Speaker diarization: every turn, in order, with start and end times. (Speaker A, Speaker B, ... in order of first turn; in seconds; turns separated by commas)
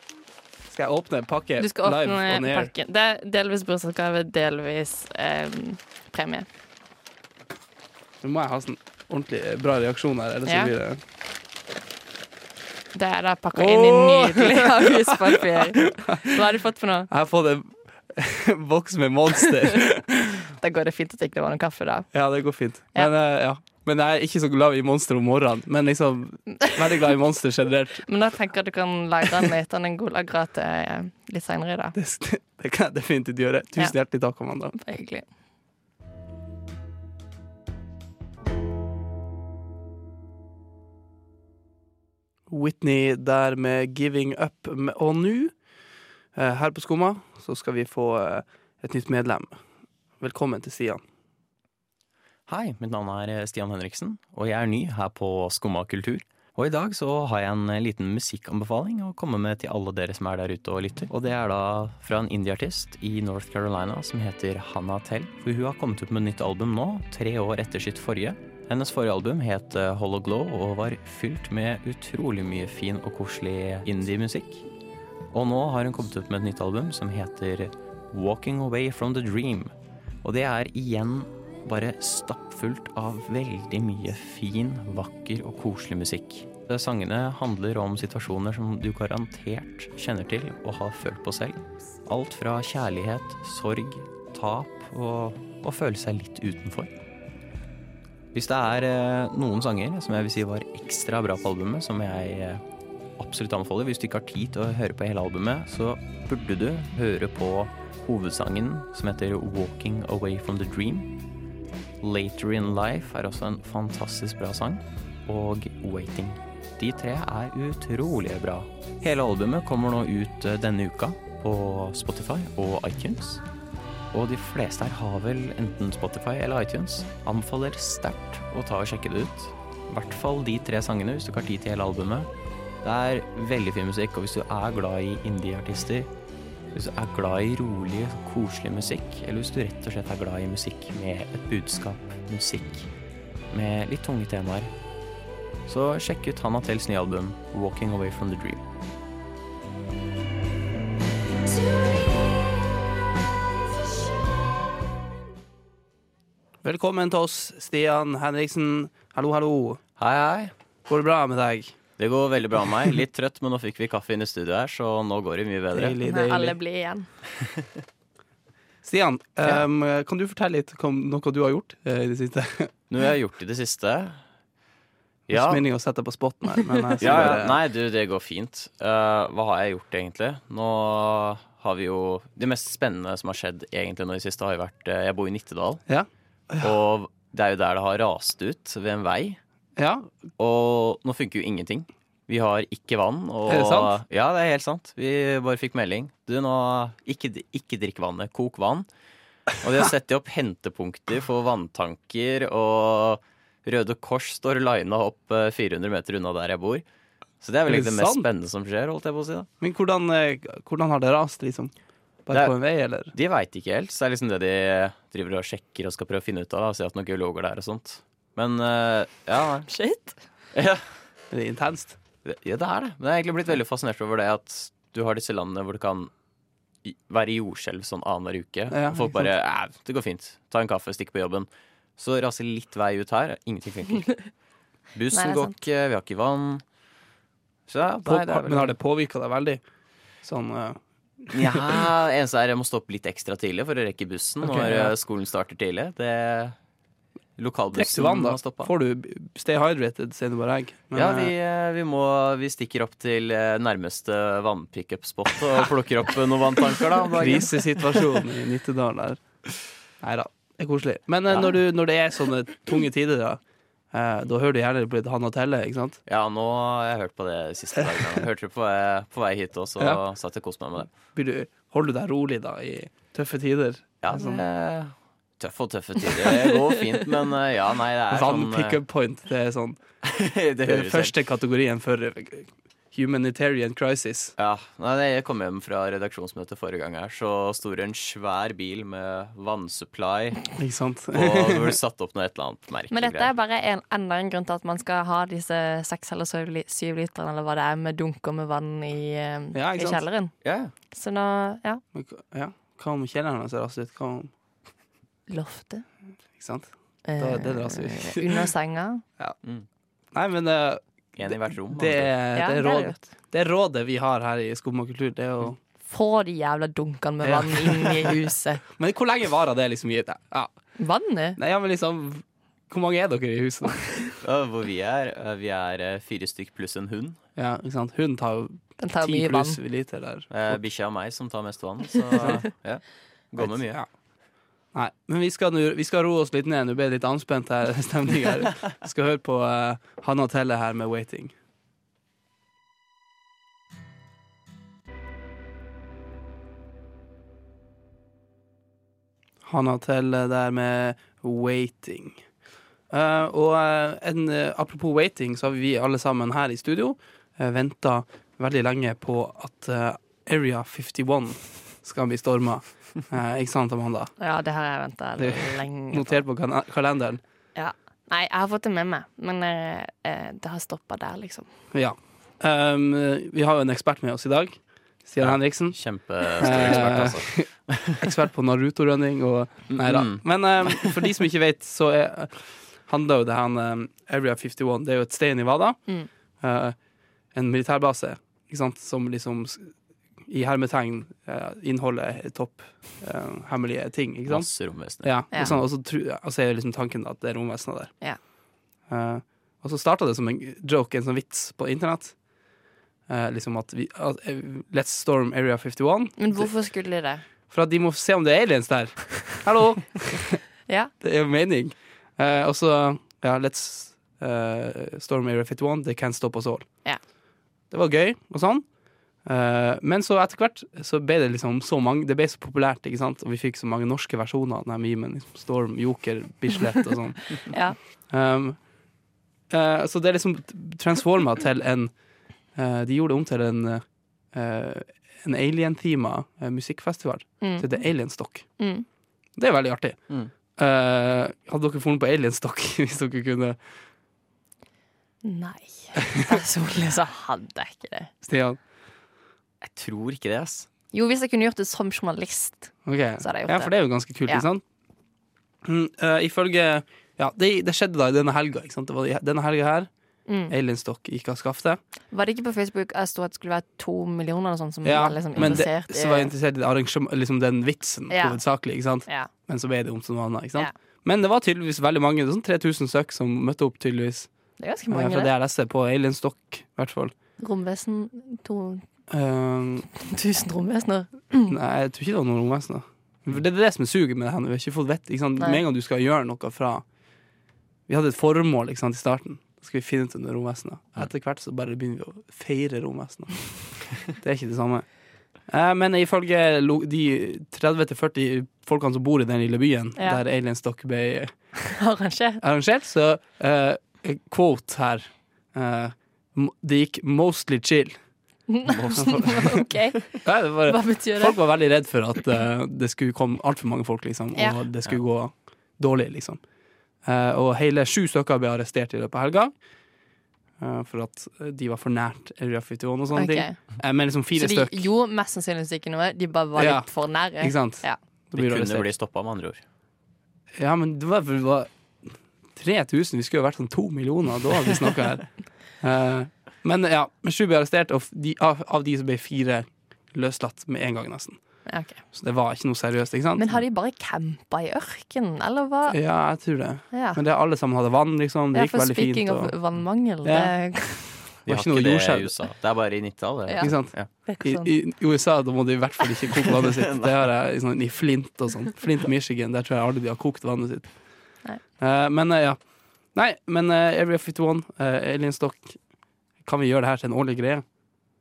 Speaker A: 0.7-2.7, Speaker B: 1.6-6.5, Speaker A: 8.2-11.0, Speaker B: 10.5-10.7, Speaker B: 12.9-17.1, Speaker A: 13.6-16.4, Speaker A: 17.1-20.5, Speaker B: 20.6-22.1, Speaker A: 22.1-28.1, Speaker B: 28.1-31.9, Speaker A: 31.9-34.8, Speaker B: 34.7-35.3, Speaker A: 42.5-45.5, Speaker A: 46.4-49.6, Speaker A: 50.2-51.0, Speaker C: 52.5-74.7, Speaker C: 75.3-79.7, Speaker C: 80.2-96.9, Speaker C: 98.3-102.6, Speaker C: 103.2-111.1, Speaker C: 112.0-123.4, Speaker C: 124.1-132.3, Speaker C: 132.8-136.1, Speaker C: 136.7-142.9, Speaker C: 143.5-144.7, Speaker C: 145.7-148.6, Speaker A: 156.6-159.8, Speaker C: 160.0-160.5, Speaker A: 160.9-161.8, Speaker C: 162.0-166.0, Speaker A: 165.7-166.6, Speaker B: 166.0-167.1, Speaker A: 168.8-172.7, Speaker C: 172.9-174.2, Speaker C: 175.3-175.6, Speaker A: 175.3-177.6, Speaker C: 177.0-185.8, Speaker A: 185.9-186.7, Speaker C: 186.6-189.4, Speaker A: 189.8-190.1, Speaker C: 190.4-198.9, Speaker A: 193.5-194.0, Speaker C: 199.6-206.8, Speaker C: 207.4-209.5, Speaker A: 207.7-208.2, Speaker A: 209.6-211.7, Speaker A: 212.3-213.1, Speaker C: 213.1-219.7, Speaker B: 219.7-220.2, Speaker C: 220.5-220.9, Speaker A: 221.3-222.0, Speaker C: 222.2-226.1, Speaker C: 226.8-234.2, Speaker A: 228.7-229.3, Speaker C: 234.9-236.6, Speaker B: 235.1-235.6, Speaker C: 237.7-238.7, Speaker A: 238.1-239.6, Speaker A: 240.2-241.7, Speaker C: 241.3-246.6, Speaker A: 244.4-244.9, Speaker C: 247.4-248.7, Speaker A: 247.7-251.3, Speaker C: 250.9-257.9, Speaker A: 257.1-259.2, Speaker A: 260.0-263.4, Speaker A: 263.9-266.0, Speaker C: 266.1-270.9, Speaker A: 271.1-274.4, Speaker C: 274.0-278.8, Speaker A: 278.1-279.8, Speaker C: 280.0-281.1, Speaker A: 280.6-284.3, Speaker C: 284.4-290.5, Speaker A: 290.6-291.8, Speaker C: 291.1-293.3, Speaker B: 292.9-300.3, Speaker A: 299.5-300.0, Speaker C: 300.4-300.7, Speaker B: 300.9-301.8, Speaker A: 301.9-304.3, Speaker B: 305.3-305.9, Speaker A: 306.4-308.5, Speaker B: 307.1-309.0, Speaker A: 310.1-315.6, Speaker C: 311.2-312.1, Speaker B: 312.4-313.0, Speaker B: 315.9-318.6, Speaker A: 317.2-318.1, Speaker A: 318.8-320.5, Speaker B: 320.8-321.4, Speaker A: 321.4-324.1, Speaker C: 324.2-327.2, Speaker A: 327.4-330.6, Speaker B: 328.8-329.6, Speaker C: 330.3-333.8, Speaker A: 332.2-332.4, Speaker A: 333.4-333.9, Speaker A: 334.7-341.3, Speaker A: 349.4-352.2, Speaker A: 352.9-364.1, Speaker B: 364.2-366.2, Speaker A: 365.2-367.2, Speaker B: 367.6-371.5, Speaker A: 371.7-375.8, Speaker C: 375.2-378.0, Speaker A: 376.3-385.8, Speaker C: 379.7-381.0, Speaker A: 386.4-386.8, Speaker A: 387.3-389.7, Speaker A: 390.3-397.9, Speaker C: 394.3-395.1, Speaker A: 398.9-402.1, Speaker A: 403.1-406.5, Speaker B: 406.2-407.2, Speaker A: 407.5-410.4, Speaker B: 410.7-410.9, Speaker A: 411.0-416.7, Speaker A: 417.7-418.6, Speaker A: 419.2-427.5, Speaker B: 427.5-427.8, Speaker A: 428.1-428.6, Speaker A: 429.5-431.9, Speaker A: 432.6-438.5, Speaker B: 437.4-437.8, Speaker B: 438.6-438.9, Speaker A: 439.4-440.0, Speaker A: 440.6-443.6, Speaker B: 445.2-448.1, Speaker A: 448.2-448.6, Speaker C: 449.6-450.7, Speaker B: 450.9-453.7, Speaker A: 452.9-454.6, Speaker A: 455.6-459.9, Speaker B: 460.3-460.5, Speaker A: 460.5-461.8, Speaker B: 462.1-466.3, Speaker A: 464.8-474.3, Speaker B: 468.1-468.4, Speaker B: 474.6-475.3, Speaker A: 474.9-477.1, Speaker B: 477.4-478.8, Speaker A: 479.1-479.9, Speaker B: 479.9-481.6, Speaker A: 481.5-486.8, Speaker A: 487.9-494.9, Speaker A: 495.5-501.3, Speaker B: 500.0-500.2, Speaker B: 501.7-502.4, Speaker A: 502.4-508.0, Speaker B: 508.5-511.4, Speaker C: 508.7-509.4, Speaker A: 509.0-509.5, Speaker A: 510.2-516.4, Speaker A: 517.0-519.5, Speaker A: 520.6-524.9, Speaker B: 523.1-523.6, Speaker B: 524.4-528.0, Speaker A: 526.6-528.9, Speaker C: 528.4-529.6, Speaker A: 530.6-531.7, Speaker A: 532.5-541.4, Speaker B: 541.7-542.0, Speaker A: 542.1-543.4, Speaker B: 543.4-546.0, Speaker A: 545.9-549.6, Speaker B: 546.9-547.2, Speaker B: 548.5-551.1, Speaker A: 550.2-550.5, Speaker A: 551.5-552.3, Speaker C: 551.5-554.1, Speaker B: 553.5-554.7, Speaker A: 553.6-560.9, Speaker C: 556.8-557.1, Speaker A: 561.8-562.6, Speaker A: 563.1-565.8, Speaker A: 566.4-567.6